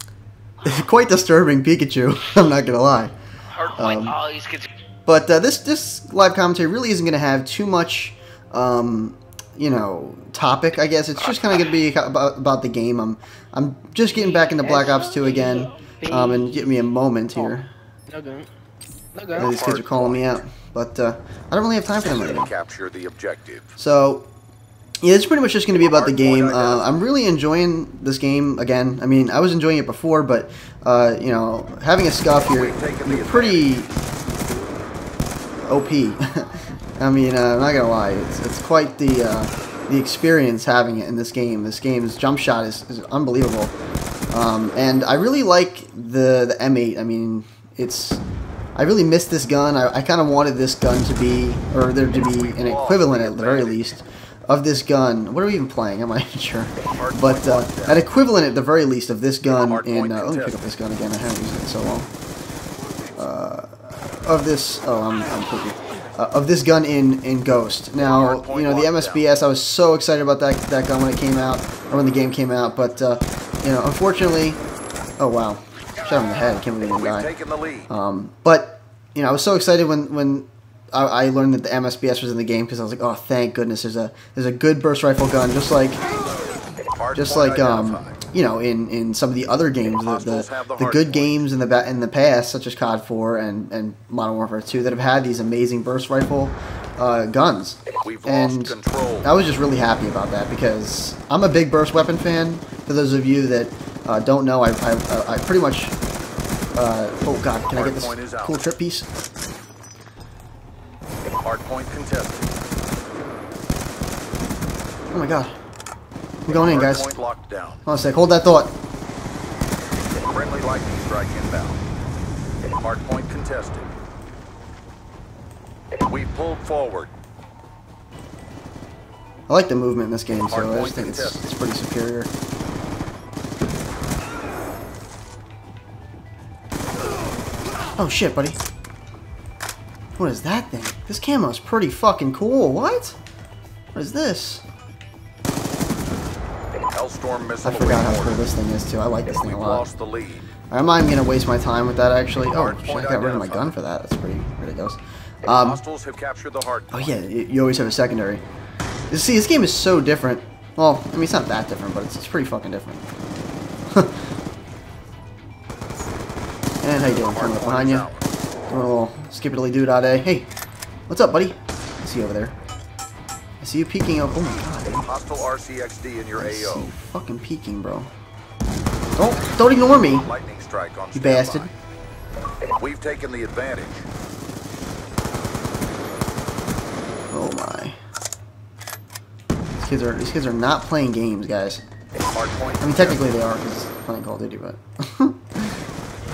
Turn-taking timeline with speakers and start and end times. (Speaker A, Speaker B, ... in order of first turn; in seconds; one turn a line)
Speaker A: 0.6-3.1
Speaker B: 3.5-4.7
Speaker A: 3.7-4.2
Speaker A: 5.1-17.7
Speaker B: 14.4-16.8
Speaker B: 18.1-18.5
Speaker B: 19.1-19.5
Speaker A: 19.4-22.5
Speaker C: 19.4-20.4
Speaker C: 22.0-23.7
Speaker A: 23.8-24.3
Speaker A: 25.0-34.0
Speaker C: 25.7-27.1
Speaker C: 32.5-33.7
Speaker A: 35.6-43.7
Speaker A: 44.3-48.2
Speaker A: 48.8-62.1
Speaker C: 52.2-53.9
Speaker C: 56.9-58.0
Speaker C: 59.6-60.6
Speaker A: 63.2-74.6
Speaker C: 68.0-69.3
Speaker A: 75.2-77.3
Speaker C: 77.0-77.9
Speaker A: 77.9-86.0
Speaker C: 87.0-88.2
Speaker A: 87.2-106.0
Speaker C: 90.0-91.4
Speaker C: 98.0-99.3
Speaker A: 106.8-109.1
Speaker C: 107.7-108.7
Speaker C: 111.4-112.5
Speaker A: 115.1-115.5
Speaker A: 116.5-117.1
Speaker C: 116.5-117.8
Speaker A: 117.8-118.7
Speaker C: 120.2-121.8
Speaker C: 122.8-123.9
Speaker C: 126.1-127.1
Speaker A: 129.5-132.3
Speaker C: 130.5-131.4
Speaker A: 137.9-138.6
Speaker A: 140.2-143.2
Speaker A: 143.9-144.6
Speaker C: 146.9-148.4
Speaker A: 147.6-149.9
Speaker C: 149.3-150.5
Speaker A: 150.7-155.8
Speaker C: 152.5-153.8
Speaker C: 155.6-157.2
Speaker A: 156.9-158.4
Speaker A: 159.1-163.1
Speaker A: 163.9-164.2
Speaker A: 166.8-168.1
Speaker C: 167.1-168.3
Speaker A: 168.7-170.5
Speaker A: 171.1-172.6
Speaker A: 173.6-175.1
Speaker C: 175.0-176.9
Speaker A: 176.4-178.1
Speaker A: 179.2-180.3
Speaker C: 180.0-181.7
Speaker A: 181.2-181.7
Speaker C: 182.8-184.1
Speaker A: 187.3-188.0
Speaker A: 189.8-191.8
Speaker C: 192.3-193.2
Speaker A: 192.8-195.8